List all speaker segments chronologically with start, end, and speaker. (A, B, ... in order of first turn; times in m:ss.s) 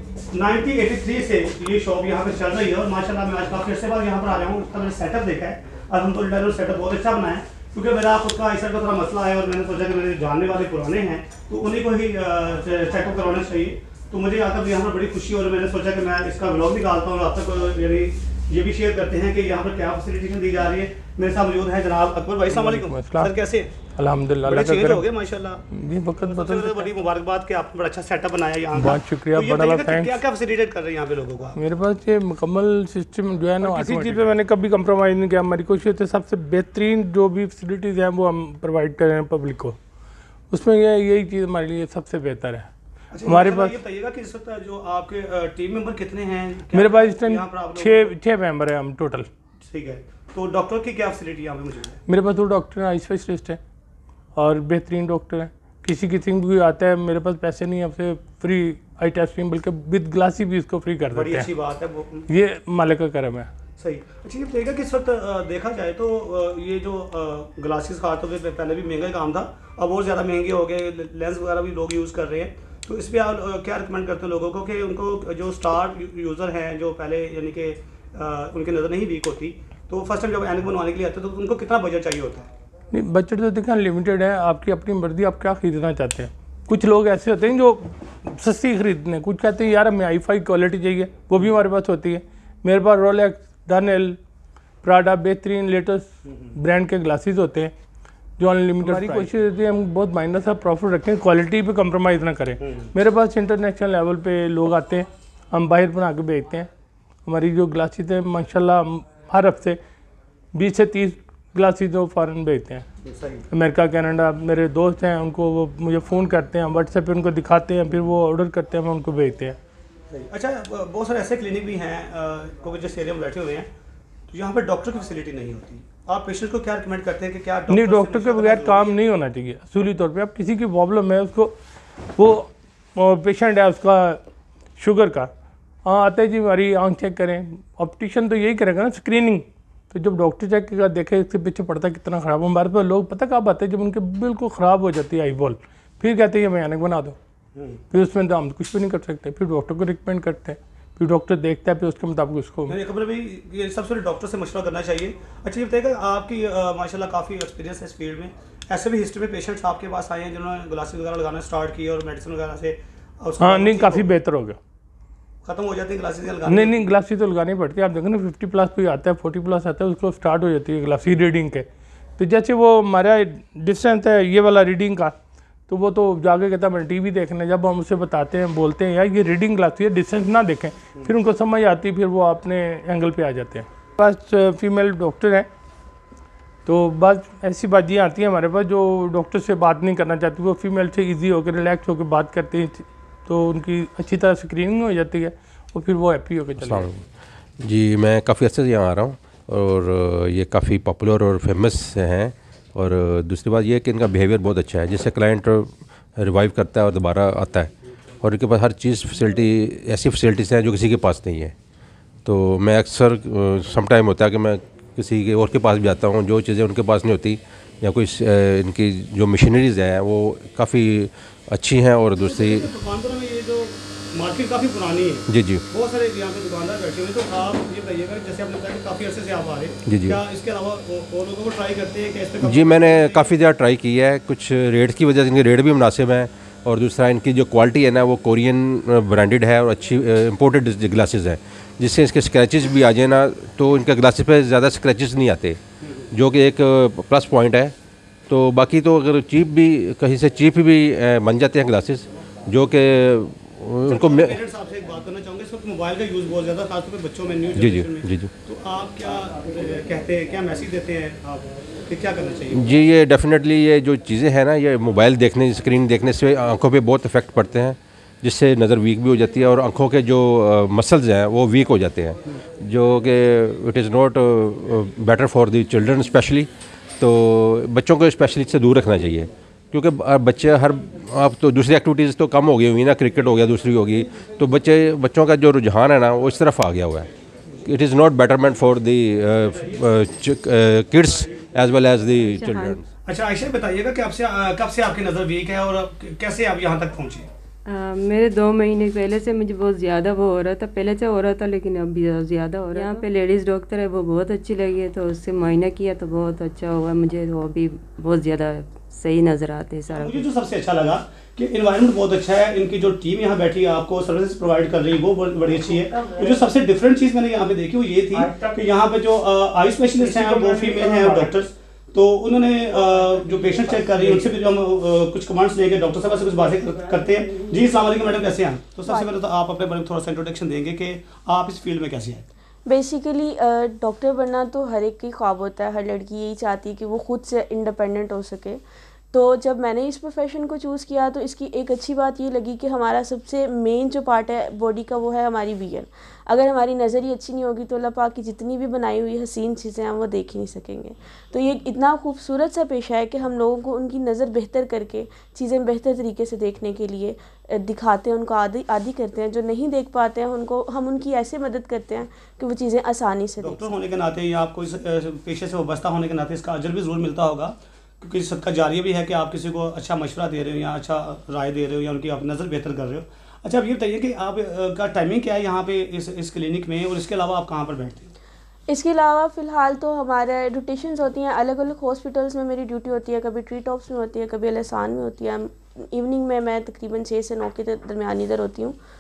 0:00.3-0:23.7 A
0:22.5-0:23.3 B
0:23.9-0:25.1 B
0:24.4-0:25.6 A
0:25.7-0:26.9 B
0:26.2-0:31.6 A
0:28.8-0:30.2 B
0:31.6-0:39.8 B
0:33.6-0:34.3 A
0:40.5-0:42.7 B
0:43.1-0:48.1 A
0:43.2-0:43.8 B
0:46.7-0:49.3 B
0:49.7-0:52.0 A
0:52.1-0:53.6 B
0:54.4-1:01.5 B
1:01.1-1:02.3 A
1:02.3-1:03.5 B
1:03.8-1:22.5 A
1:22.9-1:34.2 B
1:34.8-1:37.7 B
1:38.4-1:46.7 B
1:38.8-1:39.2 A
1:42.6-1:42.9 A
1:47.3-1:49.8 B
1:50.5-1:52.9 B
1:53.0-1:53.4 A
1:53.5-1:59.6 B
2:00.1-2:03.7 A
2:04.3-2:09.0 A
2:07.7-2:11.6 B
2:12.2-2:14.2 B
2:14.8-2:15.3 B
2:15.8-2:27.2 B
2:27.9-2:32.8 B
2:32.7-2:44.1 A
2:43.4-2:44.6 B
2:45.4-2:46.8 A
2:46.4-2:51.7 B
2:52.2-2:55.2 B
2:55.7-3:05.5 B
3:06.7-3:16.9 B
3:16.6-3:17.0 C
3:17.6-3:31.5 C
3:32.2-3:42.7 C
3:42.2-3:53.3 A
3:45.3-3:45.6 C
3:49.9-3:50.2 C
3:52.4-4:05.6 C
4:06.1-4:07.7 C
4:08.3-4:14.4 C
4:13.8-4:22.8 A
4:17.6-4:18.3 C
4:22.5-4:47.1 C
4:47.6-4:52.9 C
4:52.4-4:52.8 D
4:53.0-4:57.3 A
4:57.7-5:10.3 D
5:09.9-5:32.3 A
5:15.9-5:16.3 B
5:18.2-5:18.6 B
5:20.0-5:21.3 B
5:28.9-5:29.2 E
5:32.7-5:38.6 E
5:39.1-6:03.8 E
6:03.4-6:18.1 A
6:18.7-6:28.8 E